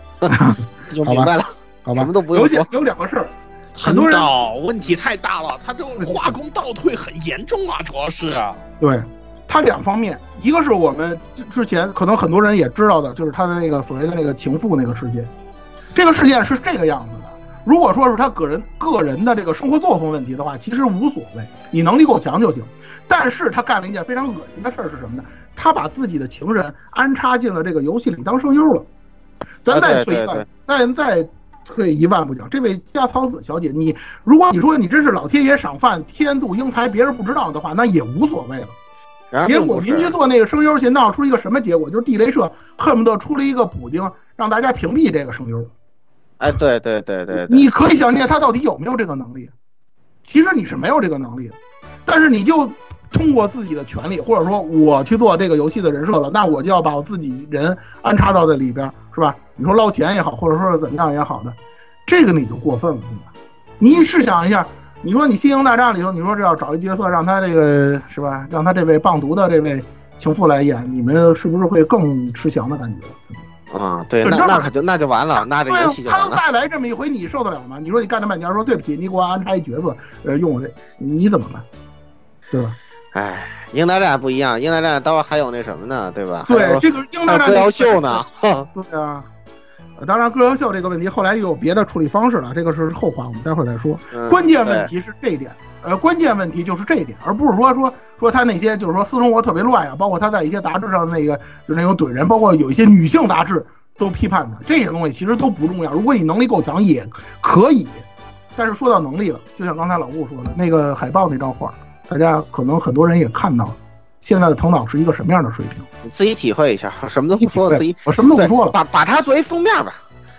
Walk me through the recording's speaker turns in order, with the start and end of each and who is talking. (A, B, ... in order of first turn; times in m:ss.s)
0:00.3-0:01.3 A
0:00.9-0:02.7 B
0:01.9-0:03.3 A
0:03.8-0:08.6 C
0:03.8-0:04.3 A
0:06.0-0:06.4 A
0:08.8-0:15.3 A
0:15.9-0:28.9 A
0:29.6-0:38.8 A
0:29.7-0:30.5 B
0:39.3-0:40.1 B
0:39.5-0:45.7 A
0:46.4-0:47.7 B
0:47.3-0:49.5 A
0:50.2-1:03.3 A
1:03.8-1:13.3 A
1:13.7-1:16.4 B
1:14.2-1:14.7 A
1:15.4-1:21.6 A
1:23.1-1:28.7 B
1:26.5-1:29.3 A
1:30.0-1:48.0 A
1:34.1-1:34.9 B
1:48.6-1:55.9 A
1:56.0-2:00.0 B
1:57.4-1:58.8 A